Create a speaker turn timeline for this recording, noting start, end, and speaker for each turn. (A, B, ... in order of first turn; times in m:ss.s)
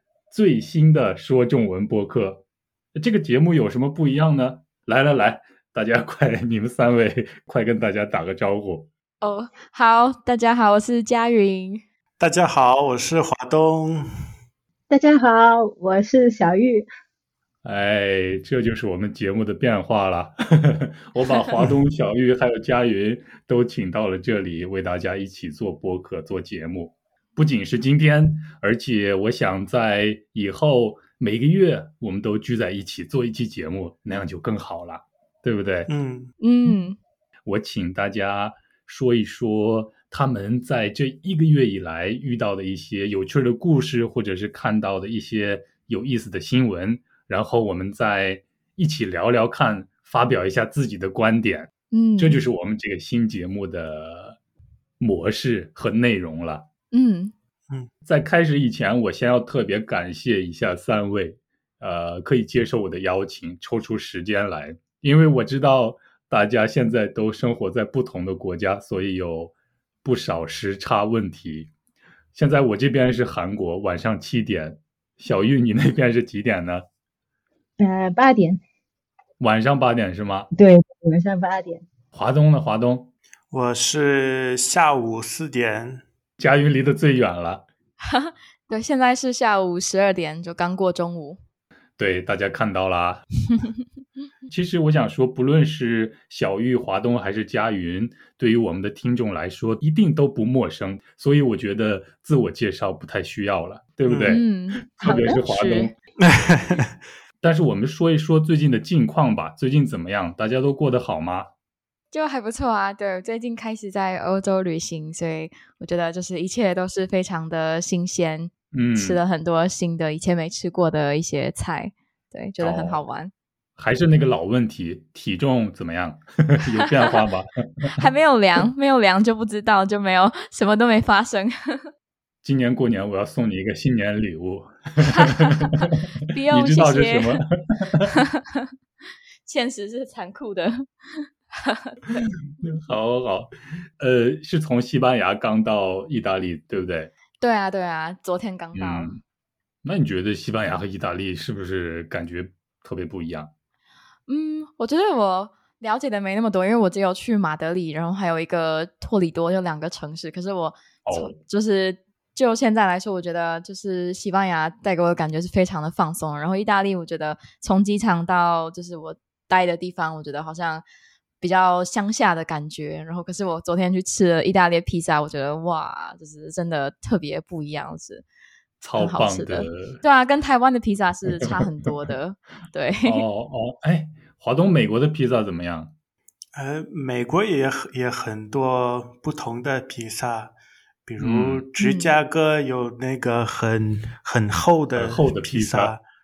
0:00.3-0:02.4 A
0:02.9-0:08.9 A
0:09.2-0:11.8 B
0:12.2-0:14.0 C
0:14.9-0:16.9 D
0:17.6-0:35.9 A
0:35.9-0:36.3 C
0:36.4-0:37.0 B
0:37.4-0:54.4 A
0:51.9-0:52.4 B
0:55.0-0:56.6 A
0:56.9-0:57.3 B
0:58.0-1:11.7 A
1:12.3-1:16.8 A
1:17.8-1:18.6 D
1:19.4-1:20.5 A
1:20.5-1:21.8 D
1:22.1-1:23.1 A
1:23.5-1:26.0 C
1:26.4-1:27.6 A
1:28.0-1:31.4 B
1:32.0-1:33.2 A
1:34.5-1:45.9 A
1:44.0-1:44.3 C
1:44.3-1:45.9 B
1:46.2-1:46.9 C
1:47.4-1:51.5 A
1:52.1-2:03.3 B
1:58.7-1:59.2 A
2:02.6-2:03.0 A
2:03.8-2:08.0 A
2:07.9-2:11.9 B
2:12.4-2:15.7 A
2:15.0-2:17.4 B
2:16.5-2:18.1 A
2:18.1-2:18.6 B
2:19.4-2:22.0 B
2:22.6-2:27.1 A
2:27.4-2:29.1 B
2:28.7-2:29.2 A
2:29.8-2:33.5 A
2:34.3-2:50.8 B
2:41.0-2:41.3 A
2:51.4-2:58.2 B
2:58.8-3:00.0 A
2:59.0-3:03.2 B
3:03.0-3:05.9 A
3:06.5-3:16.0 C
3:11.2-3:11.6 A
3:11.8-3:12.2 B
3:14.9-3:15.9 A